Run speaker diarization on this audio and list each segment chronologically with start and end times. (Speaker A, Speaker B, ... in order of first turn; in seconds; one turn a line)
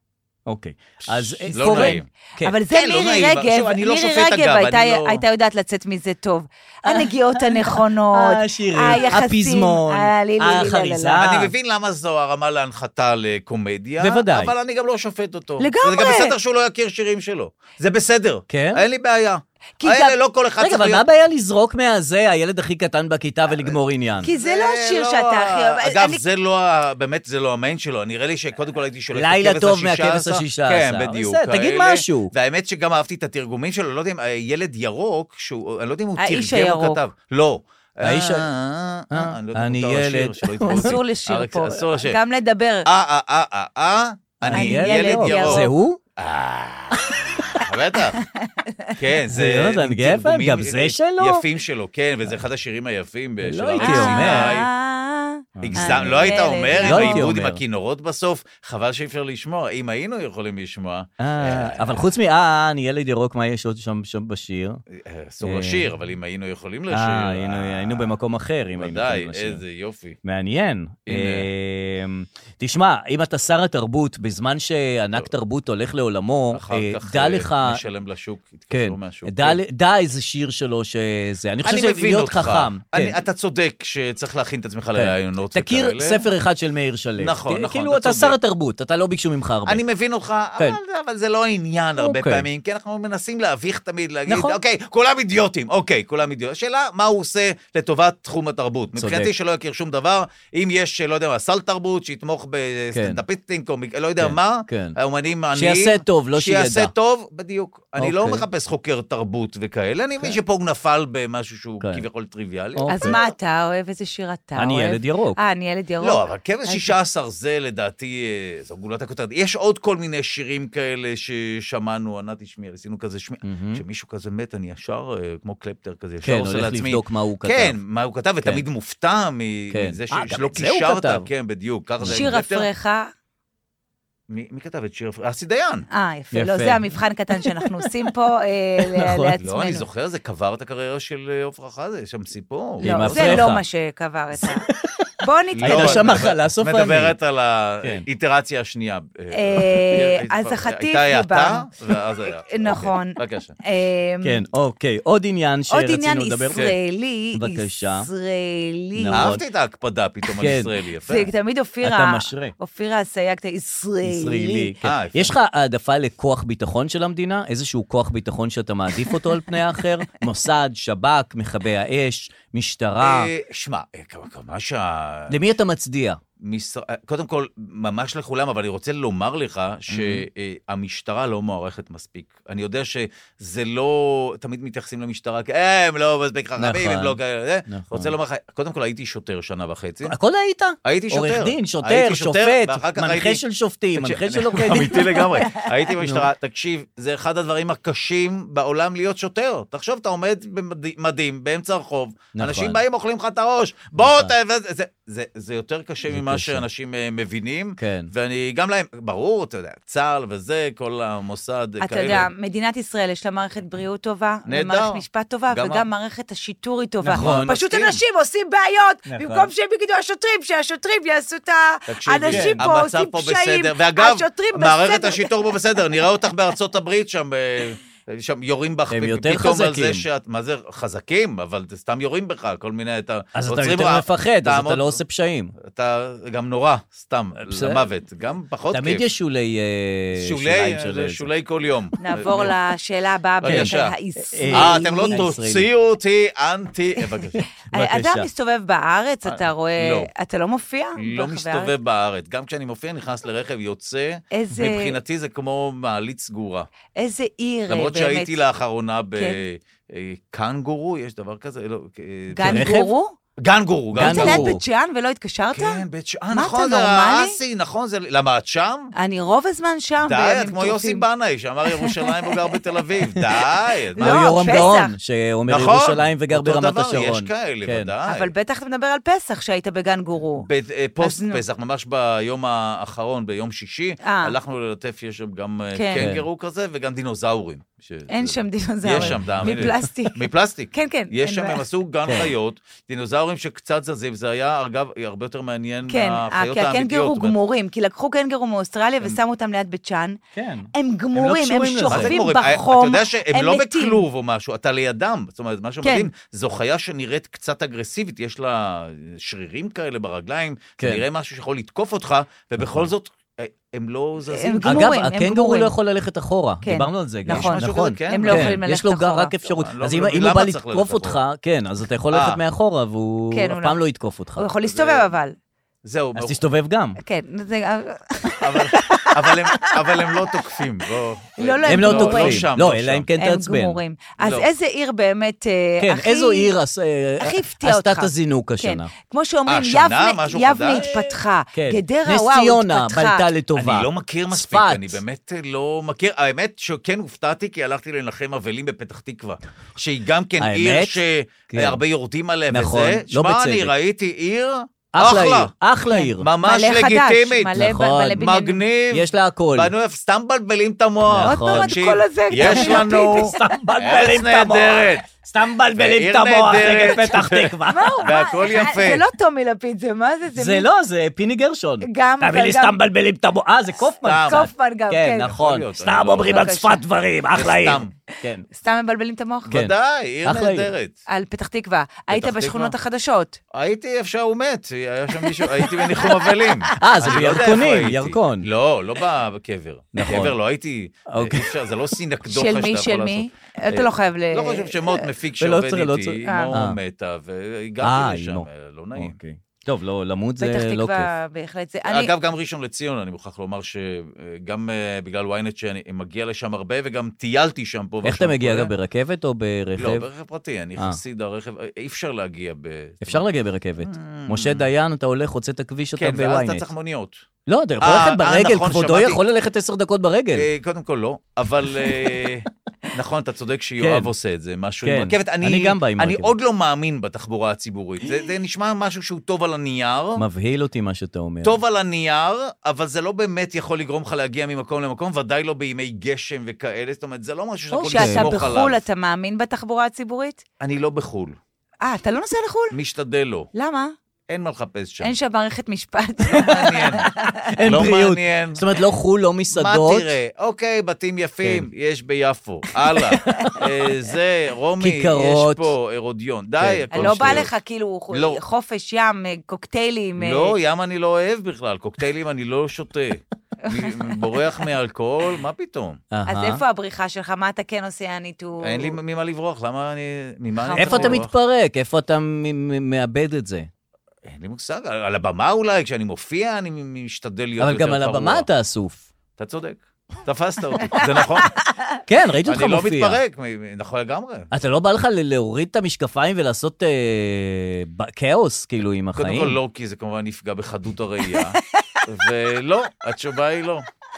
Speaker A: 0.5-2.5
Speaker B: 1.0-2.1
Speaker C: 1.5-11.2
Speaker B: 2.7-5.2
Speaker A: 6.8-11.5
Speaker B: 11.2-21.0
Speaker A: 14.0-14.5
Speaker C: 15.6-16.3
Speaker A: 18.5-18.8
Speaker C: 19.8-20.1
Speaker A: 20.6-24.3
Speaker B: 23.5-42.2
Speaker C: 24.2-26.2
Speaker A: 29.1-32.3
Speaker C: 36.2-37.0
Speaker A: 38.0-38.5
Speaker A: 39.1-41.0
Speaker C: 40.7-42.9
Speaker B: 42.8-48.2
Speaker A: 44.4-46.0
Speaker C: 44.5-45.7
Speaker A: 47.1-47.5
Speaker C: 48.2-49.0
Speaker B: 49.0-54.7
Speaker A: 49.3-51.4
Speaker A: 53.4-54.6
Speaker C: 53.8-57.3
Speaker A: 55.6-57.6
Speaker B: 55.6-62.1
Speaker A: 61.2-64.8
Speaker B: 64.9-68.2
Speaker A: 65.4-65.9
Speaker A: 66.9-69.6
Speaker B: 68.8-70.2
Speaker A: 70.2-77.8
Speaker B: 71.1-71.5
Speaker B: 76.5-79.6
Speaker A: 78.7-83.2
Speaker B: 81.6-86.2
Speaker A: 85.0-89.8
Speaker B: 87.2-88.3
Speaker B: 89.7-113.2
Speaker A: 92.0-92.5
Speaker A: 94.3-94.6
Speaker A: 99.0-99.3
Speaker A: 102.9-103.2
Speaker A: 104.2-105.0
Speaker A: 105.5-106.9
Speaker A: 108.0-108.4
Speaker A: 112.8-113.2
Speaker C: 112.9-116.9
Speaker A: 114.6-115.4
Speaker B: 116.0-132.7
Speaker A: 123.4-123.8
Speaker A: 126.2-127.8
Speaker A: 129.7-131.3
Speaker A: 132.0-132.3
Speaker C: 132.1-133.1
Speaker B: 134.3-135.9
Speaker C: 135.9-139.8
Speaker A: 136.3-137.9
Speaker A: 138.8-139.3
Speaker B: 139.4-143.5
Speaker A: 142.8-143.6
Speaker C: 142.8-144.7
Speaker A: 144.4-145.1
Speaker C: 145.2-146.2
Speaker B: 145.5-153.5
Speaker A: 145.6-147.2
Speaker C: 149.3-151.7
Speaker C: 152.4-154.4
Speaker A: 154.2-156.7
Speaker C: 155.7-159.3
Speaker A: 157.3-158.1
Speaker A: 159.0-159.4
Speaker B: 159.1-161.3
Speaker A: 160.3-160.7
Speaker C: 161.1-164.7
Speaker A: 161.8-162.5
Speaker A: 164.0-173.3
Speaker B: 164.8-165.3
Speaker B: 173.0-175.4
Speaker A: 175.3-176.2
Speaker B: 176.4-190.2
Speaker A: 179.9-180.2
Speaker A: 186.6-188.1
Speaker A: 190.1-195.3
Speaker B: 190.8-193.4
Speaker B: 193.9-212.3
Speaker A: 196.0-196.3
Speaker A: 202.3-202.8
Speaker A: 204.0-204.3
Speaker A: 206.1-206.6
Speaker A: 207.8-208.1
Speaker C: 211.8-225.3
Speaker B: 214.4-215.8
Speaker A: 217.0-217.5
Speaker B: 217.1-218.0
Speaker A: 219.1-219.5
Speaker B: 221.9-235.0
Speaker A: 222.3-222.6
Speaker A: 228.9-230.0
Speaker A: 233.3-235.6
Speaker B: 235.6-239.0
Speaker A: 237.4-237.8
Speaker A: 238.7-241.3
Speaker B: 240.1-242.5
Speaker C: 242.0-245.3
Speaker B: 243.4-243.9
Speaker A: 243.4-243.7
Speaker A: 244.3-245.7
Speaker B: 244.5-247.4
Speaker A: 247.7-248.3
Speaker C: 247.7-251.7
Speaker B: 249.2-250.1
Speaker B: 251.0-256.7
Speaker C: 254.3-254.9
Speaker C: 256.9-258.4
Speaker B: 257.7-262.7
Speaker C: 259.1-259.4
Speaker C: 262.3-263.1
Speaker A: 262.4-262.9
Speaker B: 263.4-264.6
Speaker A: 263.9-264.6
Speaker C: 264.0-267.4
Speaker B: 265.5-268.9
Speaker C: 268.9-271.1
Speaker B: 270.0-274.7
Speaker C: 271.7-272.5
Speaker C: 274.0-274.9
Speaker A: 274.0-277.9
Speaker B: 275.5-278.3
Speaker C: 278.1-280.5
Speaker B: 280.4-297.3
Speaker C: 281.0-281.4
Speaker C: 284.0-284.4
Speaker C: 285.7-286.1
Speaker A: 286.0-286.2
Speaker C: 288.1-291.6
Speaker A: 288.9-289.8
Speaker A: 292.1-292.3
Speaker C: 295.9-300.2
Speaker A: 300.3-302.1
Speaker C: 300.7-304.0
Speaker B: 301.9-314.9
Speaker C: 305.8-306.1
Speaker A: 310.8-311.0
Speaker A: 312.6-312.9
Speaker C: 314.3-315.7
Speaker A: 314.6-324.5
Speaker C: 316.6-319.3
Speaker B: 317.3-318.6
Speaker B: 319.4-321.2
Speaker B: 322.1-322.4
Speaker C: 323.3-323.8
Speaker C: 324.4-325.4
Speaker B: 324.6-325.1
Speaker B: 325.8-326.4
Speaker A: 326.1-327.0
Speaker C: 327.0-330.2
Speaker B: 328.4-333.1
Speaker C: 331.4-332.5
Speaker A: 331.7-333.8
Speaker C: 333.2-336.5
Speaker B: 334.2-334.5
Speaker A: 335.8-338.9
Speaker C: 337.2-343.2
Speaker B: 339.5-340.9
Speaker A: 340.7-345.0
Speaker B: 343.6-355.5
Speaker A: 350.4-351.8
Speaker A: 352.5-353.7
Speaker A: 354.9-356.3
Speaker C: 355.9-358.6
Speaker B: 356.2-357.6
Speaker A: 357.6-358.3
Speaker B: 358.1-365.1
Speaker A: 358.9-359.7
Speaker A: 361.1-361.8
Speaker C: 361.2-363.4
Speaker A: 362.3-368.1
Speaker B: 365.8-369.0
Speaker C: 367.7-370.7
Speaker A: 370.3-378.4
Speaker C: 371.8-372.8
Speaker B: 374.0-374.5
Speaker C: 374.2-375.3
Speaker B: 375.2-376.5
Speaker C: 376.3-376.8
Speaker B: 377.3-377.9
Speaker C: 378.5-379.5
Speaker B: 379.5-380.9
Speaker A: 380.2-380.7
Speaker C: 381.1-383.4
Speaker B: 382.1-382.7
Speaker B: 383.5-399.2
Speaker A: 386.8-388.5
Speaker A: 389.9-390.3
Speaker A: 391.1-391.5
Speaker C: 392.3-395.1
Speaker A: 395.4-396.8
Speaker C: 396.2-396.6
Speaker A: 397.8-401.1
Speaker C: 400.4-402.1
Speaker B: 401.9-408.7
Speaker A: 408.0-410.1
Speaker B: 409.8-413.2
Speaker A: 413.0-416.6
Speaker B: 413.8-414.7
Speaker B: 416.0-417.2
Speaker A: 417.5-420.5
Speaker B: 417.8-419.2
Speaker B: 420.3-430.2
Speaker A: 423.8-424.1
Speaker A: 424.8-426.3
Speaker A: 430.2-431.6
Speaker B: 431.4-438.8
Speaker A: 437.7-438.3
Speaker C: 437.9-440.4
Speaker B: 440.6-441.4
Speaker C: 441.8-442.8
Speaker B: 442.7-443.5
Speaker C: 443.5-443.9
Speaker B: 444.3-445.1
Speaker C: 445.0-447.4
Speaker B: 446.3-447.1
Speaker A: 446.3-446.7
Speaker A: 447.5-450.1
Speaker B: 447.6-448.6
Speaker B: 449.5-457.5
Speaker A: 453.2-453.6
Speaker C: 453.2-453.6
Speaker A: 454.8-455.7
Speaker A: 456.6-457.5
Speaker C: 456.9-460.5
Speaker B: 458.1-458.4
Speaker B: 460.2-466.0
Speaker C: 463.6-464.2
Speaker A: 466.1-466.6
Speaker C: 466.3-469.0
Speaker B: 468.6-471.3
Speaker C: 470.6-471.2
Speaker A: 470.8-473.7
Speaker B: 474.2-478.5
Speaker A: 477.6-479.0
Speaker B: 479.4-481.5
Speaker A: 482.1-483.2
Speaker B: 482.4-484.5
Speaker A: 484.5-489.6
Speaker B: 489.2-493.9
Speaker C: 491.3-492.0